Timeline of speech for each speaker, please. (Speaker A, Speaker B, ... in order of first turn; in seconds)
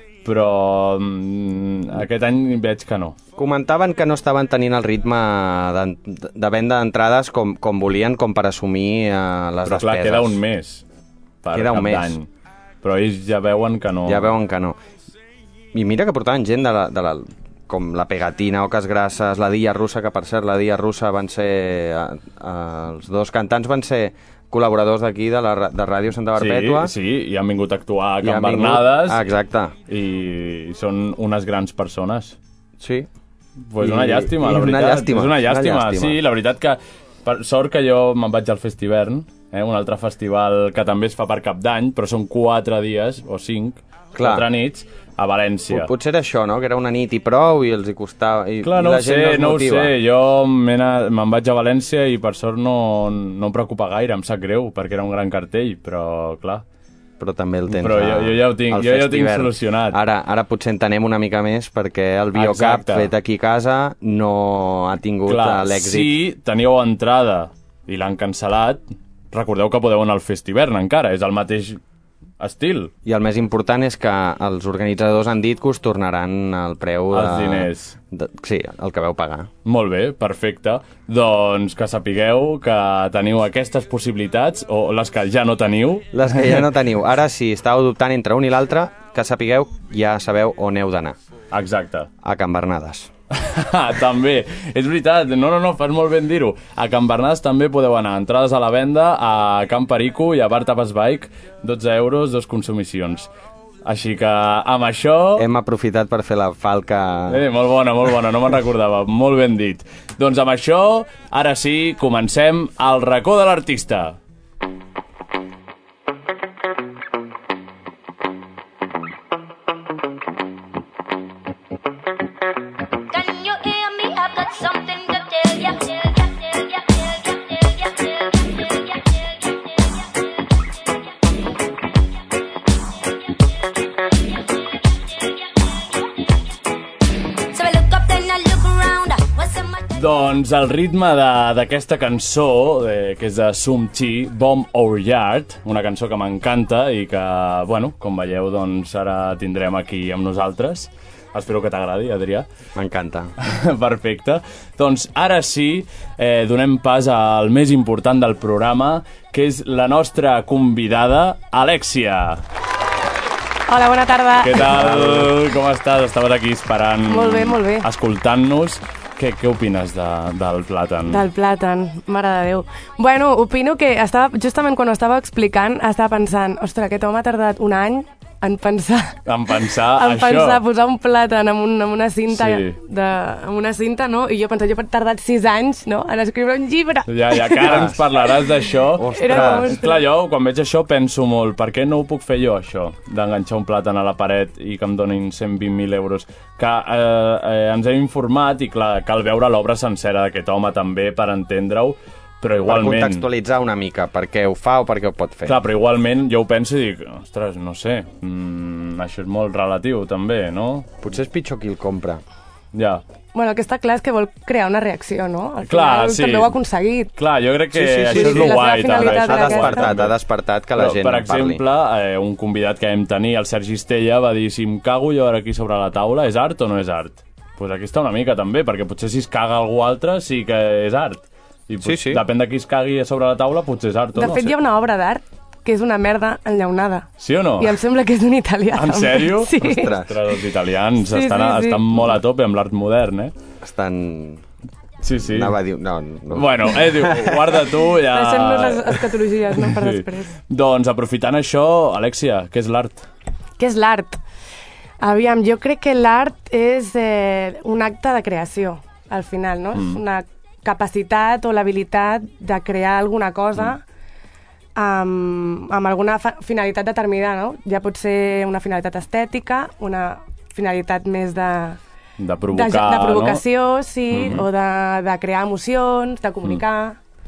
Speaker A: 0.2-3.2, 9.7-10.8, 11.4-12.3, 12.8-14.3, 26.4-29.2, 29.9-32.4, 33.7-45.9, 48.6-56.6, 57.7-60.0, 62.3-63.1, 65.3-71.8, 72.4-72.9, 77.1-78.0, 79.7-86.6, 91.5-92.1, 93.3-103.3, 103.8-105.5, 107.3-114.2, 139.9-152.5, 153.4-162.4, 164.4-171.2, 179.3-180.6, 182.3-182.8, 187.1-203.3, 205.5-210.9, 212.7-213.0, 215.7-216.6, 217.2-220.2, 220.8-234.5, 237.2-237.8, 238.8-243.3, 245.0-245.6, 246.3-253.1, 272.2-273.4, 274.1-274.5
Speaker B: 3.4-10.4, 11.5-12.2, 14.1-14.8, 15.7-26.9, 28.2-29.7, 32.8-33.1, 33.8-36.2, 44.1-44.5, 45.7-49.9, 57.2-66.2, 73.0-79.5, 86.1-91.2, 92.2-93.1, 105.4-107.4, 152.8-153.3, 187.6-188.0, 188.9-189.8, 202.6-205.6, 211.0-212.2, 217.7-221.6, 231.8-232.2, 239.6-240.2, 243.6-244.4, 245.2-247.6
Speaker C: 123.1-130.3, 134.2-135.8, 137.5-139.8
Speaker D: 163.7-164.9, 167.1-167.9, 171.1-188.0, 189.1-190.0, 213.3-217.1, 218.1-219.9, 234.2-239.9, 241.0-242.2, 248.1-250.3, 253.6-254.2, 255.0-263.8, 264.8-271.8, 272.5-277.0